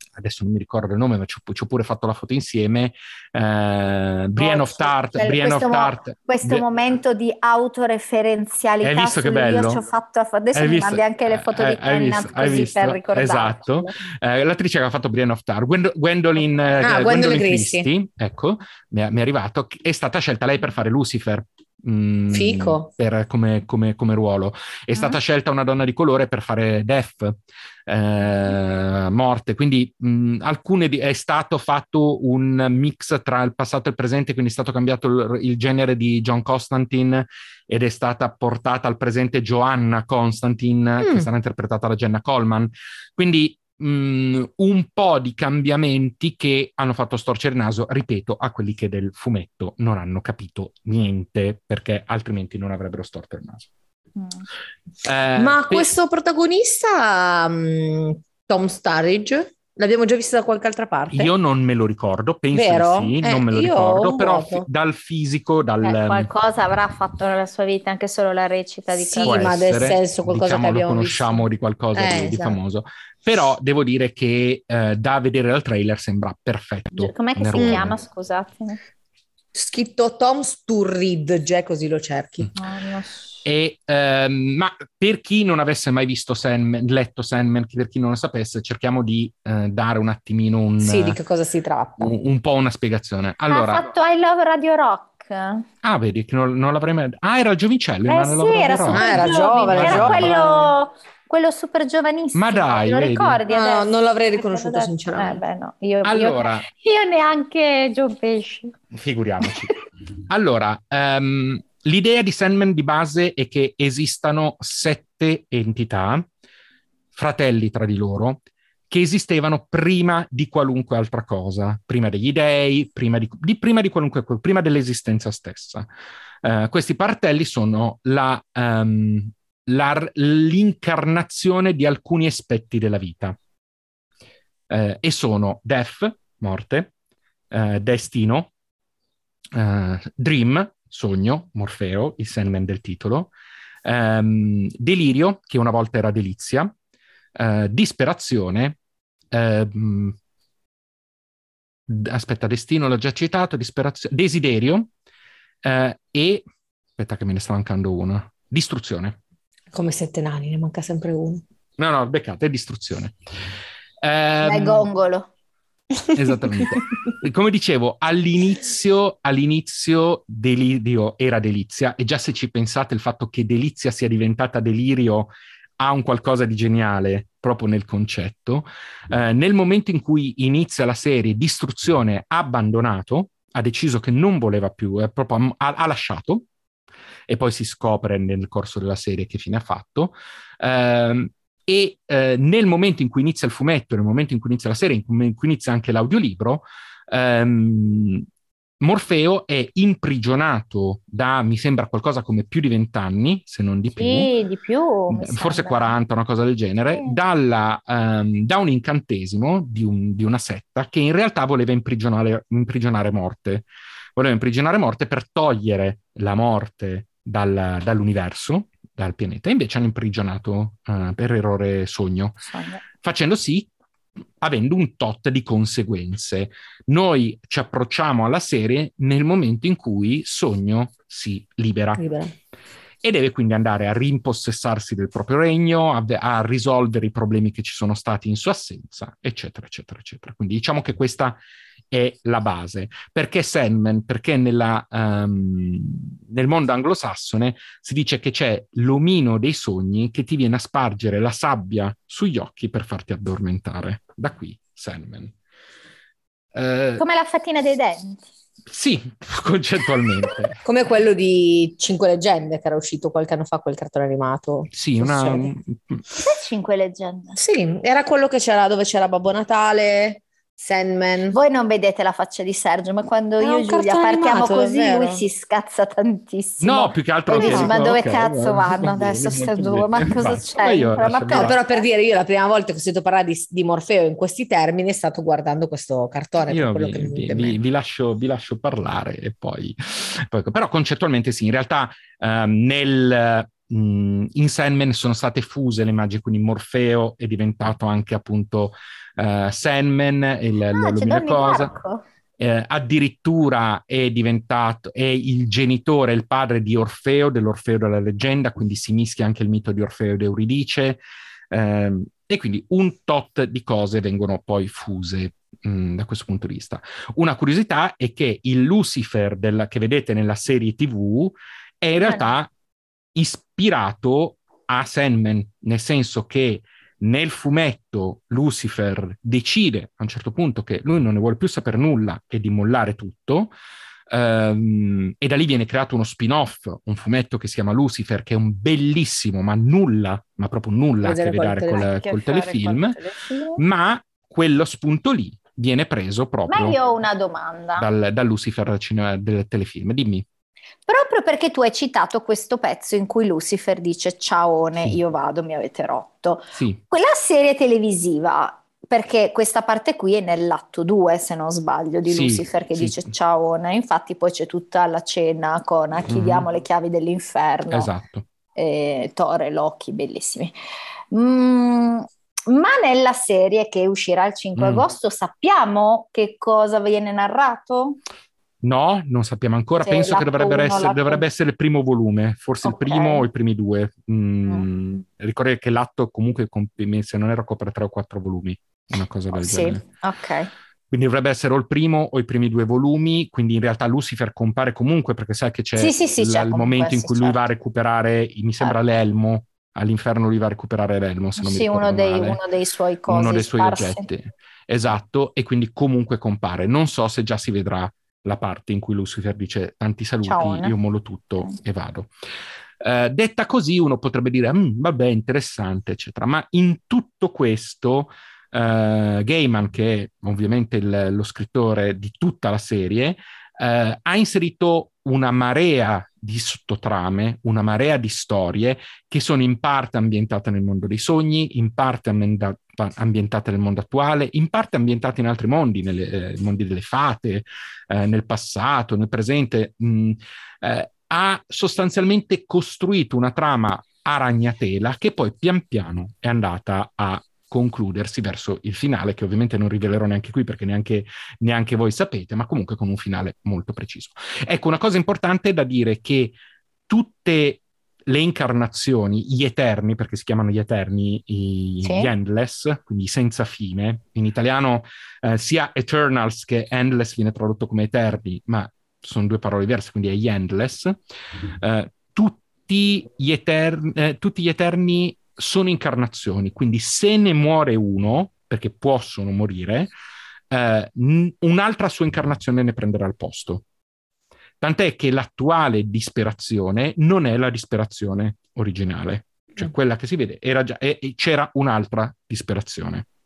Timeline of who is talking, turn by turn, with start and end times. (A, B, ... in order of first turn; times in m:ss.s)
0:00.2-0:06.6 A
0:04.4-0:14.0 B
0:08.8-0:09.8 A
0:10.5-0:53.7 A
0:16.8-0:17.9 C
0:22.3-0:22.9 C
0:41.0-0:41.3 C
0:54.2-0:54.4 B
0:55.0-0:56.0 A
0:55.4-1:01.3 C
1:01.1-1:06.3 A
1:02.5-1:04.7 C
1:05.8-1:09.5 B
1:08.9-1:12.6 C
1:09.2-1:18.0 A
1:16.9-1:18.8 B
1:19.5-1:22.5 C
1:22.6-1:23.4 B
1:23.4-1:31.2 A
1:30.8-1:32.1 C
1:32.0-1:33.9 A
1:33.5-1:35.6 B
1:35.8-1:39.1 A
1:38.0-1:48.7 B
1:38.9-1:40.7 C
1:39.7-1:40.3 A
1:42.3-1:43.4 A
1:43.5-1:45.4 C
1:46.0-1:46.7 A
1:48.9-1:49.7 A
1:50.3-1:56.2 A
1:57.1-2:05.9 A
2:06.4-2:13.4 A
2:14.7-2:16.9 A
2:17.5-2:18.5 A
2:19.5-2:23.3 A
2:23.8-2:26.7 A
2:27.4-2:28.8 A
2:29.3-2:30.2 A
2:31.9-2:34.9 A
2:35.6-2:36.4 A
2:37.0-2:39.2 A
2:39.7-2:41.4 C
2:41.8-2:43.1 A
2:44.0-2:44.9 A
2:44.4-2:45.3 B
2:46.1-3:06.4 A
3:07.3-3:18.2 A
3:18.8-3:24.3 A
3:24.0-3:26.0 B
3:25.1-3:42.4 A
3:26.9-3:27.2 B
3:42.4-3:42.8 B
3:43.0-3:43.7 A
3:44.4-3:52.0 A
3:52.0-3:52.3 C
3:53.0-4:01.4 A
4:01.9-4:15.3 A
4:16.5-4:17.0 A
4:17.0-4:18.2 B
4:18.7-4:20.6 A
4:20.6-4:25.5 C
4:24.7-4:26.0 A
4:26.2-4:27.4 B
4:27.4-4:31.4 C
4:31.3-4:41.8 B
4:33.4-4:35.2 C
4:36.6-4:41.6 A
4:37.3-4:37.8 C
4:41.3-4:47.6 C
4:46.5-5:01.7 A
5:00.7-5:02.0 B
5:02.4-5:22.5 A
5:22.0-5:22.3 B
5:23.1-5:33.5 A
5:34.1-5:43.0 A
5:41.0-5:41.9 C
5:41.7-5:43.6 B
5:43.6-5:46.8 A
5:46.5-5:47.9 B
5:47.8-5:50.2 A
5:50.9-6:07.9 B
5:56.5-5:56.8 A
6:02.0-6:03.1 A
6:06.1-6:06.5 A
6:07.7-6:08.3 A
6:08.6-6:10.5 B
6:11.1-6:18.0 B
6:14.6-6:14.8 A
6:18.6-6:29.8 A
6:19.8-6:21.2 B
6:22.6-6:23.2 B
6:29.3-6:30.5 B
6:30.9-6:42.4 A
6:35.8-6:37.4 B
6:41.4-6:44.1 B
6:43.1-6:52.1 A
6:50.2-6:50.7 B
6:52.8-7:36.3 A
7:36.9-7:51.0 A
7:41.8-7:42.1 B
7:51.6-7:59.9 A
8:00.5-8:03.6 A
8:04.6-8:13.0 A